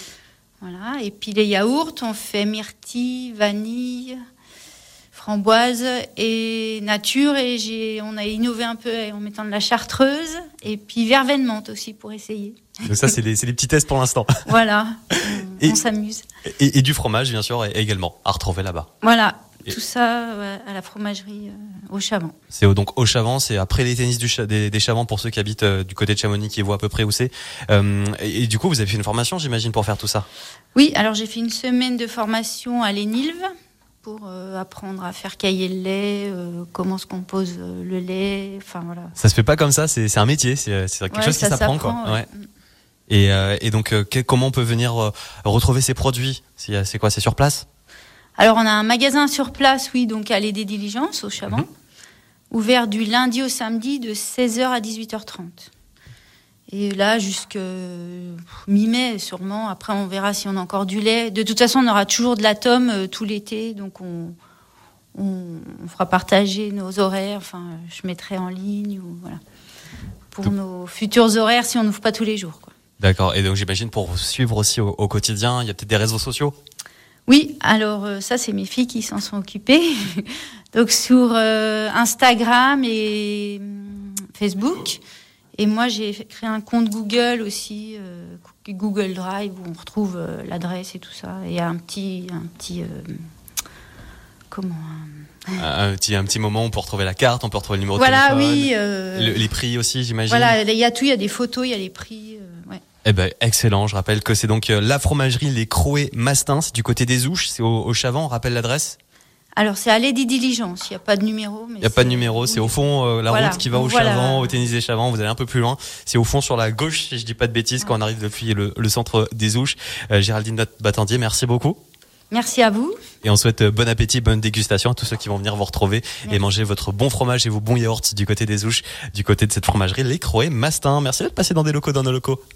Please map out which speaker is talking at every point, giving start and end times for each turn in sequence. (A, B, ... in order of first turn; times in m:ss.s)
0:00.6-0:04.2 A
0:05.1-0:13.1 A
0:12.9-0:14.5 B
0:14.5-0:16.2 A
0:16.5-0:18.9 B
0:19.0-0:22.3 A
0:22.5-0:30.3 B
0:30.8-0:33.5 A
0:34.0-0:39.1 A
0:39.2-0:42.2 B
0:41.1-0:42.5 A
0:43.1-0:47.7 B
0:48.4-0:51.7 A
0:52.5-0:55.7 A
0:56.7-1:04.4 A
1:05.2-1:09.4 A
1:10.3-1:12.7 A
1:13.0-1:16.6 B
1:17.3-1:25.0 A
1:25.6-1:33.3 A
1:34.5-1:35.6 A
1:35.6-1:40.6 B
1:38.0-1:39.5 A
1:40.3-1:42.8 A
1:43.0-1:49.0 B
1:49.6-1:52.8 A
1:51.8-2:01.8 B
1:53.3-1:54.6 A
2:02.3-2:03.0 A
2:03.2-2:12.4 B